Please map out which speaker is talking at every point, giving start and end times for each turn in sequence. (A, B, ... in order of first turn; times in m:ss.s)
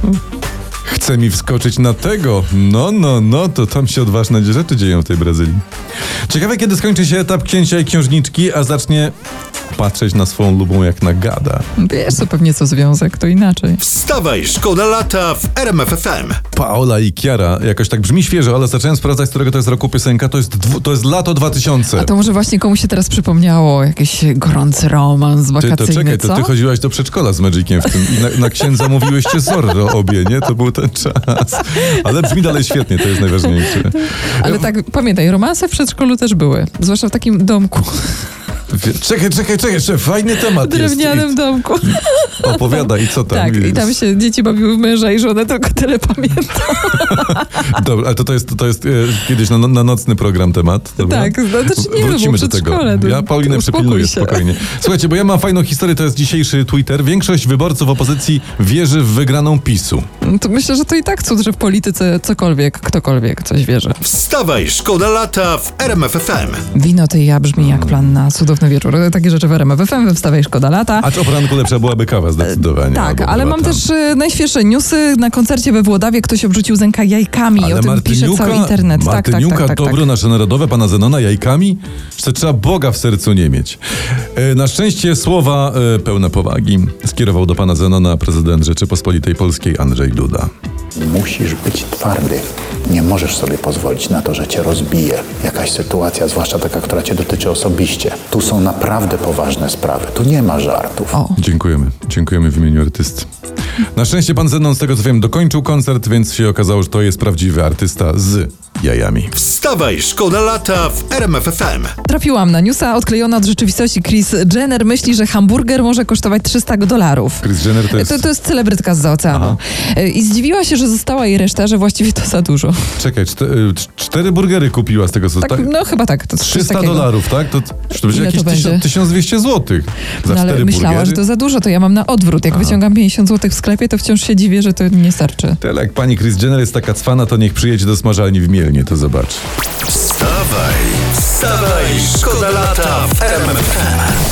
0:00.9-0:05.6 A
0:06.3-0:09.1 A
0:09.7-0:11.7 A
0:11.8-0:13.8 B
0:13.8-0:16.4 C
0:16.5-0:22.1 A
0:22.0-0:26.5 B
0:25.6-0:34.6 A
0:34.3-0:38.3 B
0:38.7-0:44.0 A
0:40.5-0:47.7 B
0:46.8-1:00.1 A
0:51.0-0:54.5 B
1:00.2-1:04.0 B
1:04.0-1:06.6 C
1:06.7-1:11.1 B
1:07.6-1:08.2 A
1:11.0-1:13.8 A
1:12.4-1:20.0 B
1:17.6-1:23.8 A
1:24.4-1:30.5 A
1:31.0-1:41.1 D
1:41.1-1:41.4 B
1:41.4-1:43.3 A
1:43.9-1:49.4 A
1:49.4-1:51.9 C
1:52.0-2:02.9 B
1:57.4-1:58.3 A
1:59.3-1:59.6 A
2:03.0-2:05.7 A
2:05.4-2:07.1 B
2:06.4-2:11.2 A
2:07.9-2:08.9 B
2:10.2-2:15.6 B
2:12.5-2:12.8 A
2:15.6-2:19.4 A
2:19.9-2:24.1 C